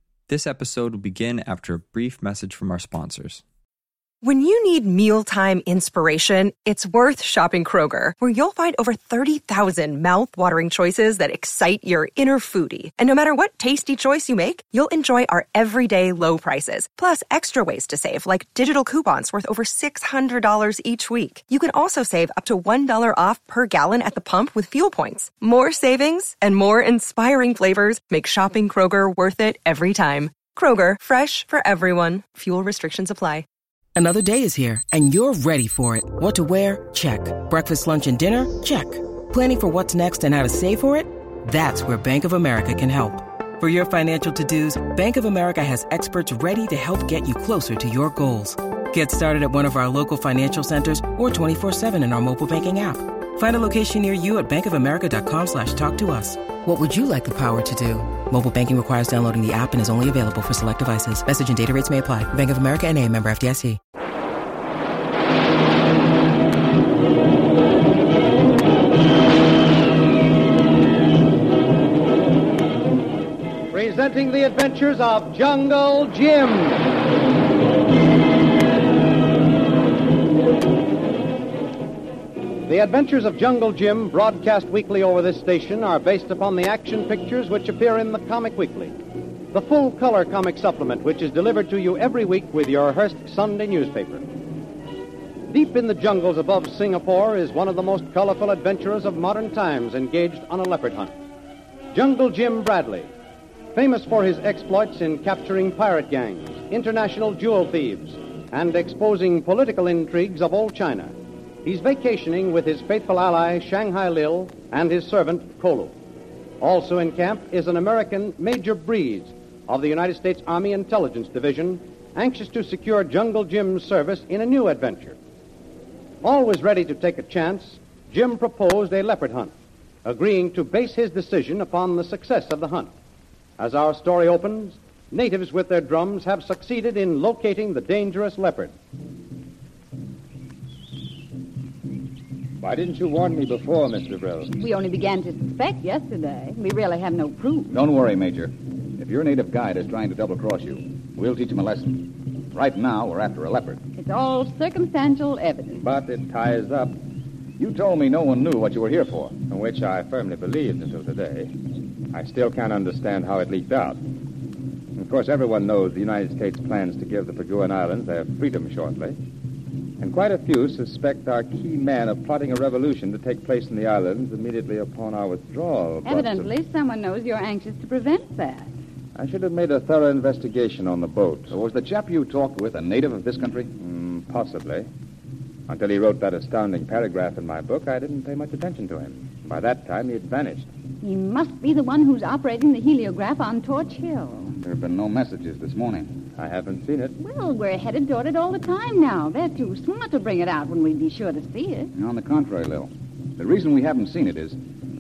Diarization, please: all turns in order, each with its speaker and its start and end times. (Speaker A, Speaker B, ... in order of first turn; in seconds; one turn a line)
Speaker A: 0.3-3.4
Speaker B: 4.2-33.5
Speaker C: 34.0-63.8
Speaker D: 73.7-76.9
Speaker D: 82.7-89.0
Speaker D: 89.5-94.3
Speaker D: 95.5-101.1
Speaker D: 101.9-103.1
Speaker D: 103.7-111.1
Speaker D: 111.7-116.0
Speaker D: 116.6-125.2
Speaker D: 126.2-129.5
Speaker D: 130.1-132.9
Speaker D: 133.6-138.7
Speaker E: 142.6-144.6
Speaker F: 144.6-147.8
Speaker G: 147.7-153.8
Speaker F: 154.0-155.8
Speaker E: 155.8-157.0
Speaker G: 157.6-159.4
Speaker E: 159.5-161.5
Speaker E: 162.1-164.0
Speaker E: 165.0-169.2
Speaker E: 170.0-176.5
Speaker F: 176.0-178.7
Speaker E: 179.2-181.6
Speaker G: 181.5-183.7
Speaker E: 183.8-184.9
Speaker E: 185.7-190.7
Speaker F: 191.0-194.5
Speaker G: 194.6-196.2
Speaker E: 196.4-197.2
Speaker F: 197.2-201.9
Speaker G: 201.9-204.6